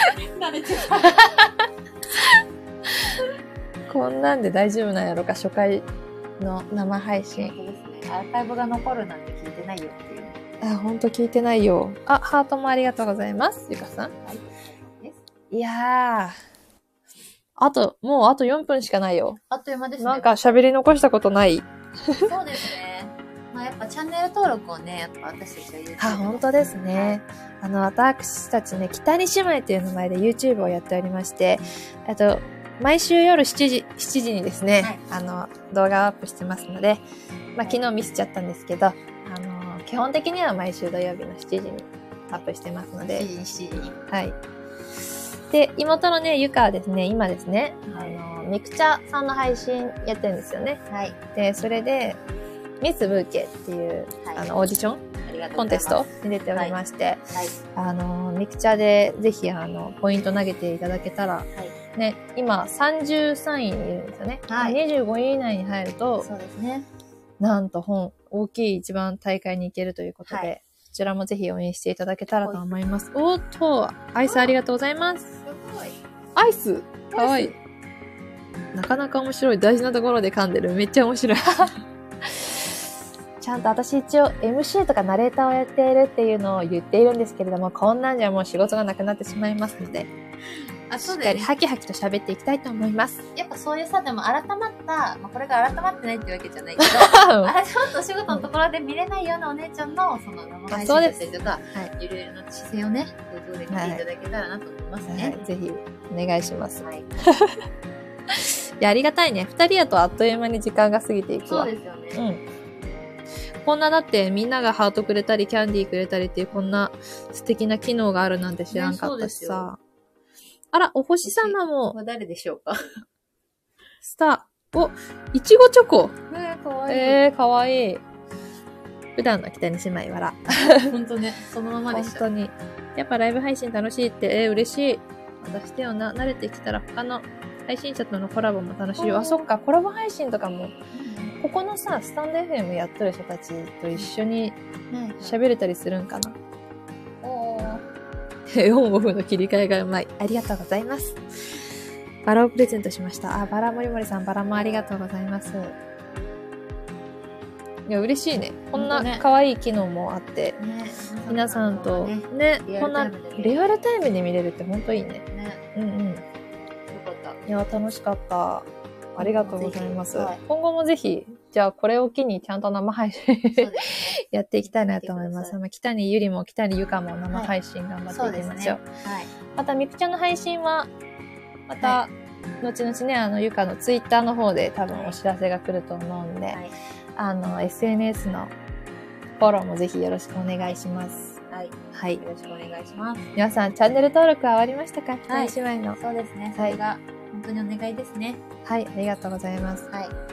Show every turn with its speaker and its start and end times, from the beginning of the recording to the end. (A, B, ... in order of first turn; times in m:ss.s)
0:00.2-0:01.5 A
0:03.9-0:05.9 B
0:06.4-0:07.5 B
0:07.3-0:10.5 A
0:10.6-0:14.1 B
0:14.2-0:15.2 A
0:15.5-0:16.4 B
0:17.6-0:19.4 B
0:19.5-0:20.6 A
0:20.0-0:22.3 B
0:22.2-0:27.2 A
0:26.0-0:37.0 B
0:37.5-0:43.3 B
0:37.6-0:38.1 A
0:43.1-0:44.0 A
0:44.1-0:44.4 B
0:45.5-0:50.8 B
0:47.8-0:48.2 A
0:50.9-0:51.2 A
0:51.3-0:52.2 B
0:52.8-0:55.0 B
0:55.2-0:56.8 A
0:55.5-1:06.3 B
1:04.5-1:04.8 A
1:06.2-1:06.9 A
1:07.4-1:15.3 B
1:10.2-1:10.5 A
1:12.4-1:12.8 A
1:14.2-1:14.6 A
1:15.4-1:16.0 A
1:16.4-1:17.5 B
1:17.1-1:17.6 A
1:18.7-1:22.8 B
1:23.4-1:30.1 B
1:30.9-1:31.5 A
1:31.0-1:33.2 B
1:33.3-1:45.4 A
1:36.8-1:37.5 B
1:40.7-1:41.9 B
1:43.7-1:44.0 B
1:45.1-1:47.6 B
1:46.8-1:47.1 A
1:48.3-1:52.4 B
1:51.5-1:52.2 A
1:53.6-1:59.8 B
1:58.7-1:59.7 A
2:00.7-2:02.0 B
2:01.2-2:03.0 A
2:04.0-2:06.2 B
2:06.3-2:07.3 A
2:06.9-2:08.0 B
2:09.2-2:10.9 B
2:10.8-2:12.2 A
2:11.9-2:20.8 B
2:19.0-2:19.5 A
2:20.9-2:21.4 A
2:21.4-2:24.6 B
2:24.9-2:25.4 A
2:25.2-2:26.4 B
2:27.2-2:27.8 A
2:28.5-2:31.2 B
2:32.2-2:35.8 B
2:34.5-2:34.9 A
2:37.9-2:40.6 B
2:38.7-2:39.2 A
2:40.6-2:43.8 A
2:41.3-2:46.2 B
2:45.3-2:45.6 A
2:46.9-2:47.4 A
2:47.5-2:58.8 B
2:49.2-2:50.4 A
2:53.5-2:55.6 A
2:58.1-2:59.3 A
2:59.5-3:00.9 B
3:01.7-3:06.6 B
3:04.9-3:05.2 A
3:07.2-3:08.5 B
3:09.4-3:11.4 B
3:11.5-3:13.3 A
3:11.9-3:12.2 B
3:13.4-3:16.0 B
3:15.3-3:18.4 A
3:18.6-3:19.9 B